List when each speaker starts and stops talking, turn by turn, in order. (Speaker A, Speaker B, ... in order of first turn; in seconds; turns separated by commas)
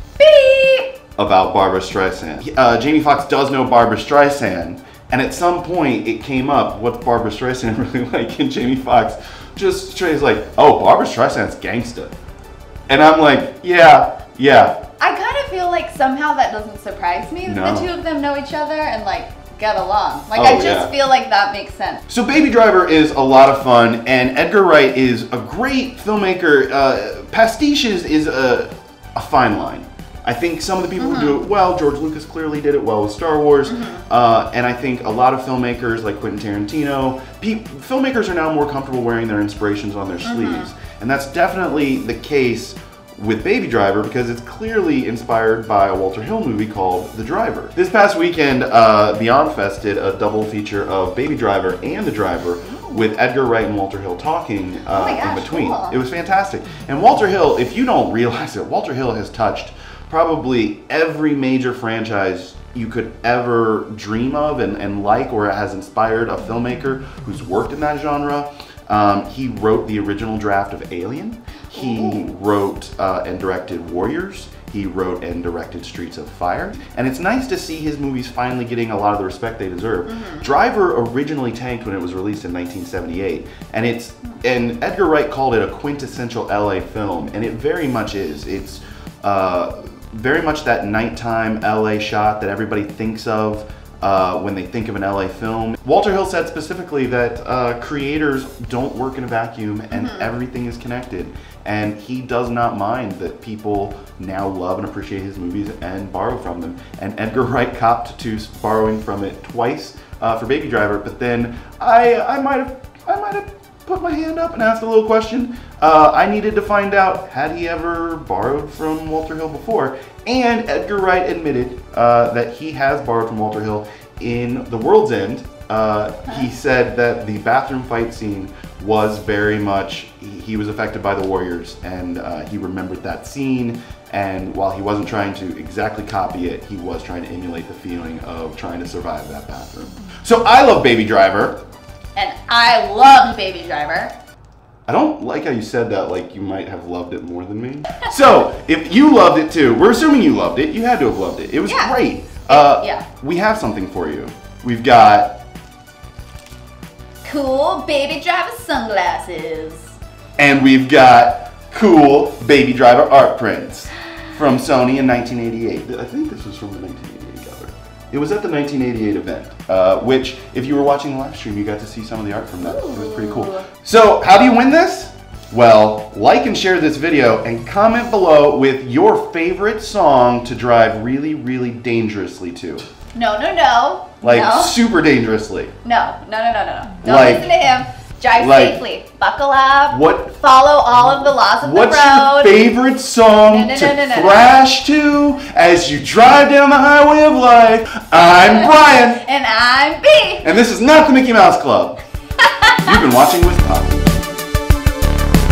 Speaker A: 0.2-0.9, Speaker B: 1.2-12.1, Speaker B: 12.9-14.8, Speaker A: 15.0-22.0, Speaker B: 17.4-17.9, Speaker B: 20.3-20.9, Speaker B: 22.1-141.6, Speaker A: 31.0-31.4, Speaker A: 33.7-34.0, Speaker A: 40.2-40.7, Speaker A: 52.6-53.1, Speaker A: 54.9-56.0, Speaker A: 71.7-72.3, Speaker A: 80.1-80.5, Speaker A: 99.9-100.3, Speaker A: 142.2-144.1, Speaker B: 144.9-155.4, Speaker A: 151.7-152.0, Speaker A: 152.5-153.1, Speaker A: 157.2-160.0, Speaker B: 160.4-182.9, Speaker A: 172.6-173.7, Speaker A: 183.1-184.8, Speaker B: 184.2-185.7, Speaker A: 185.8-192.6, Speaker B: 187.0-187.5, Speaker B: 188.4-188.8, Speaker B: 189.9-190.3, Speaker B: 191.1-199.2, Speaker A: 193.5-194.6, Speaker A: 198.4-200.5, Speaker B: 200.4-202.0, Speaker A: 202.4-202.9, Speaker B: 202.8-204.0